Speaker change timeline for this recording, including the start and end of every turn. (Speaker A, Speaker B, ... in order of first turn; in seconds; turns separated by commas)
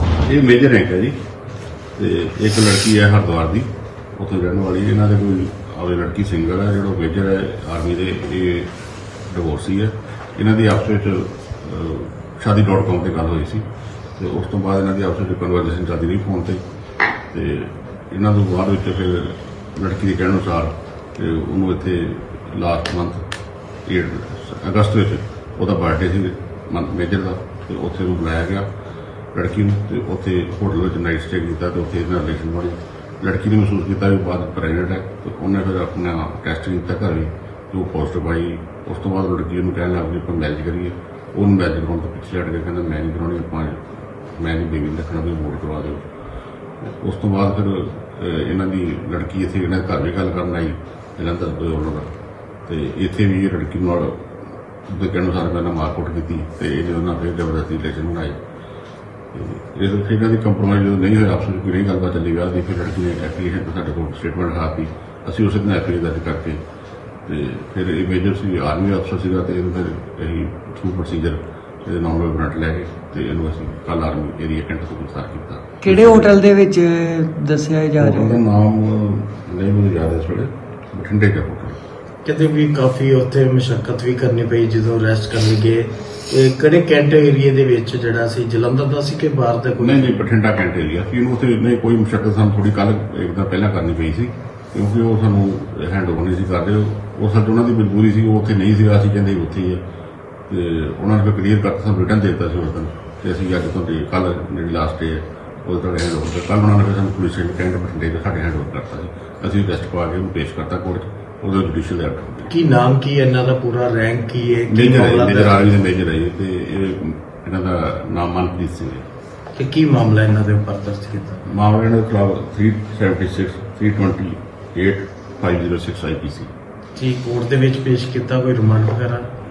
Speaker A: 0.2-1.2, Speaker A: 2.0-8.7, Speaker A: 9.3-13.7, Speaker A: 14.2-16.6, Speaker A: 17.3-23.2, Speaker A: 23.9-28.6, Speaker A: 29.3-43.8, Speaker A: 44.4-46.0, Speaker A: 46.8-52.1, Speaker A: 52.7-54.3, Speaker A: 54.9-58.4, Speaker A: 59.3-66.6, Speaker A: 67.2-76.4, Speaker B: 75.8-78.3, Speaker A: 78.0-81.8, Speaker C: 82.2-90.1, Speaker A: 89.8-99.8, Speaker A: 100.5-112.5, Speaker C: 112.5-115.7, Speaker A: 114.7-119.0, Speaker C: 119.5-121.4, Speaker A: 121.5-126.5, Speaker C: 127.0-129.3